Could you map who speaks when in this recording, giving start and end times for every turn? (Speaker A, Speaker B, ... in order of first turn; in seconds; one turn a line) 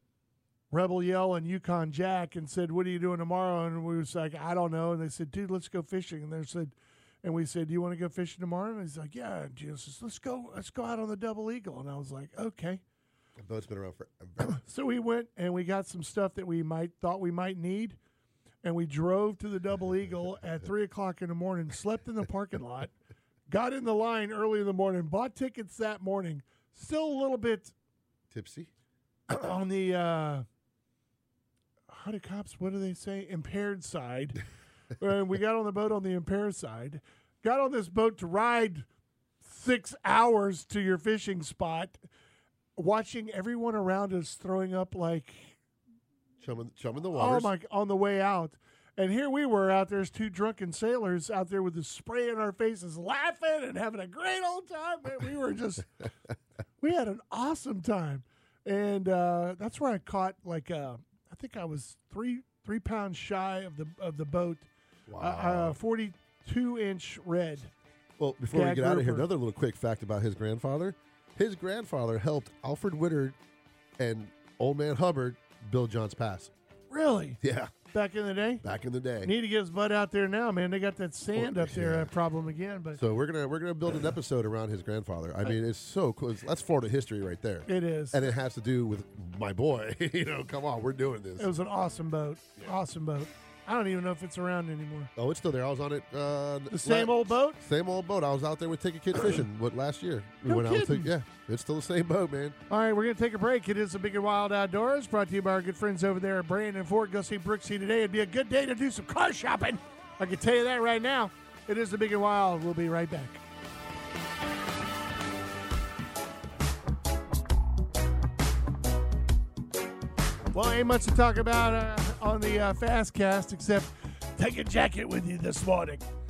Speaker A: 0.7-12.8
Speaker B: 13.4-14.6
Speaker A: 14.4-18.0
Speaker A: 18.6-22.9
Speaker A: 23.5-27.7
Speaker B: 28.3-28.7
Speaker A: 29.3-30.4
Speaker A: 31.9-34.4
Speaker A: 35.0-38.9
Speaker A: 39.4-42.0
Speaker A: 42.8-45.6
Speaker B: 46.4-47.5
Speaker A: 47.1-55.9
Speaker A: 56.8-67.7
Speaker B: 65.1-65.8
Speaker B: 68.2-73.4
Speaker A: 68.5-69.3
Speaker B: 74.0-76.5
Speaker A: 76.9-77.4
Speaker B: 77.4-77.7
Speaker A: 77.9-78.6
Speaker B: 78.6-79.3
Speaker A: 79.2-83.0
Speaker B: 81.3-82.1
Speaker B: 83.0-91.5
Speaker A: 87.7-88.2
Speaker A: 91.4-95.1
Speaker B: 95.2-102.6
Speaker A: 96.7-97.6
Speaker A: 100.4-101.1
Speaker A: 102.7-113.4
Speaker A: 120.5-126.0